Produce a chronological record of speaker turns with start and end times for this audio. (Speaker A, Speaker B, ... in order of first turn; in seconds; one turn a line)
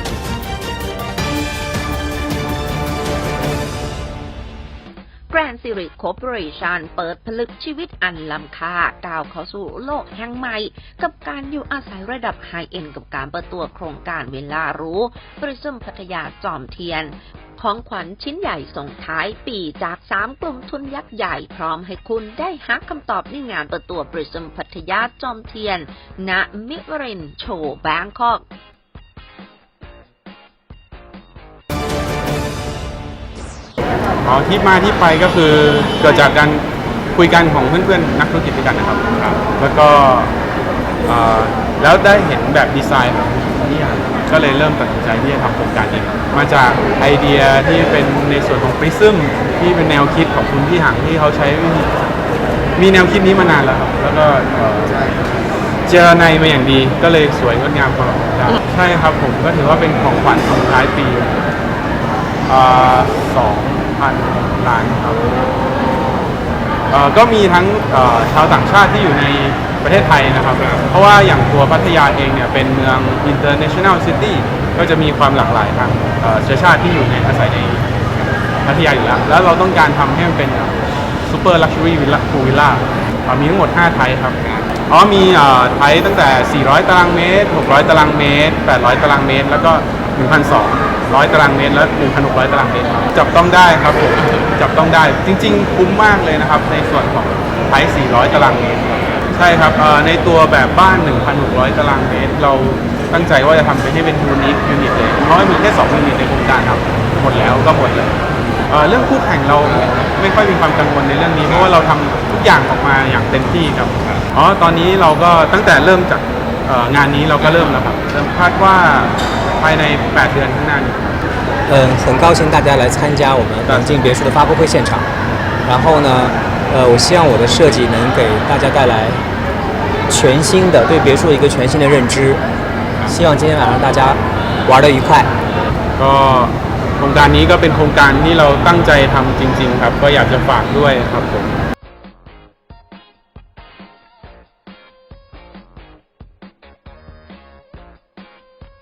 Speaker A: 5.3-28.4
Speaker B: 34.2-40.3
Speaker B: 41.0-51.9
Speaker B: 52.8-55.0
Speaker B: 55.9-61.4
Speaker B: 62.5-65.4
Speaker B: 66.9-77.9
Speaker B: 78.6-108.2
Speaker B: 108.7-121.0
Speaker C: 121.7-125.1
Speaker B: 123.7-124.2
Speaker C: 125.7-129.2
Speaker C: 130.1-132.4
Speaker C: 133.1-135.3
Speaker B: 136.0-141.6